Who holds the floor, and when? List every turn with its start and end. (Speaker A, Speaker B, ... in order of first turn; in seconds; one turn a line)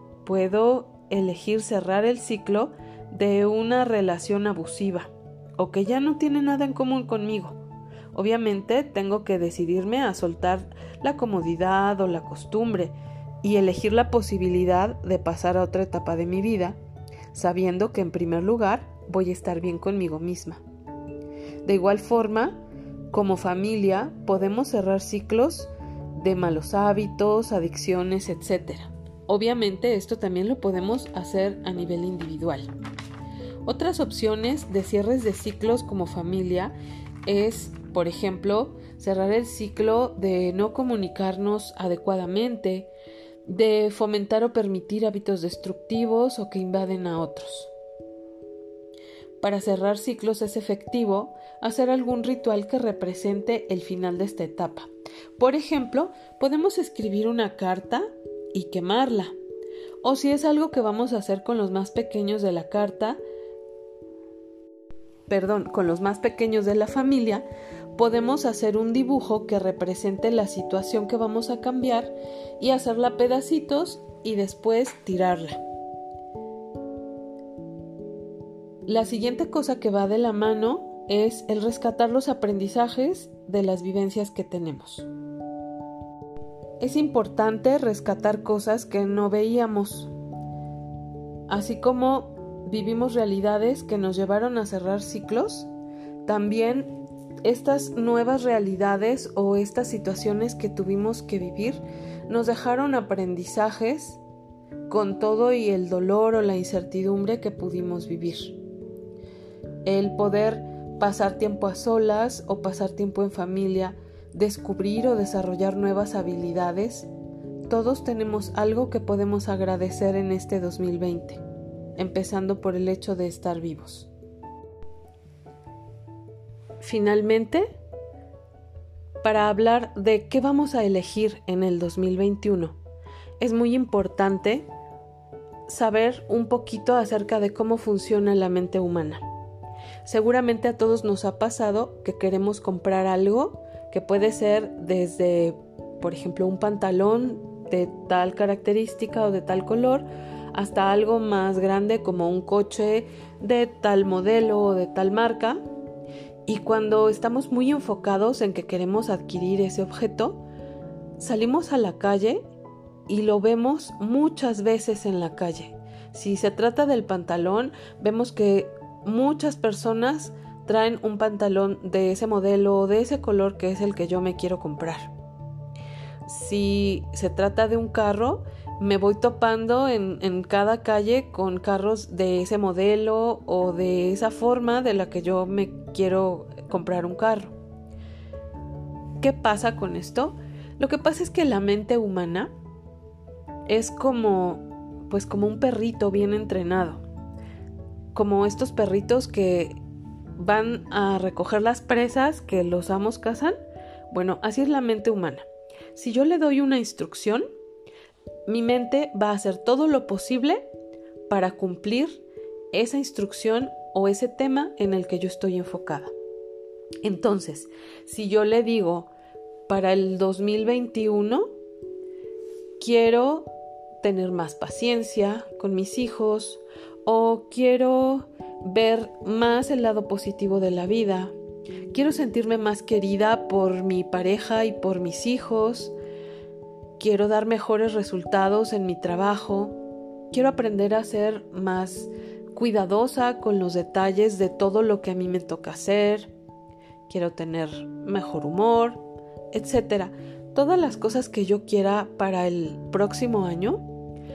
Speaker A: 0.2-7.6
Speaker A: 8.1-16.8
Speaker A: 17.3-20.6
Speaker A: 21.6-32.7
Speaker A: 33.6-42.9
Speaker A: 43.5-47.7
Speaker A: 49.4-59.4
Speaker A: 60.0-63.2
Speaker A: 65.3-75.6
Speaker A: 78.8-85.1
Speaker A: 86.8-90.1
Speaker A: 91.5-95.7
Speaker A: 96.2-96.9
Speaker A: 97.4-104.2
Speaker A: 104.9-108.6
Speaker A: 109.8-117.1
Speaker A: 117.7-121.4
Speaker A: 122.0-124.1
Speaker A: 126.8-127.7
Speaker A: 129.2-132.8
Speaker A: 133.4-134.7
Speaker A: 135.7-139.2
Speaker A: 140.0-155.6
Speaker A: 156.4-160.4
Speaker A: 161.2-162.4
Speaker A: 163.1-175.1
Speaker A: 176.2-187.5
Speaker A: 189.2-192.5
Speaker A: 193.7-197.0
Speaker A: 198.1-199.8
Speaker A: 200.4-203.5
Speaker A: 204.1-207.4
Speaker A: 208.5-210.7
Speaker A: 211.3-216.1
Speaker A: 217.0-219.1
Speaker A: 219.7-221.5
Speaker A: 222.8-223.5
Speaker A: 224.0-231.3
Speaker A: 231.9-235.9
Speaker A: 237.0-239.8
Speaker A: 240.3-246.3
Speaker A: 247.1-249.0
Speaker A: 249.5-253.8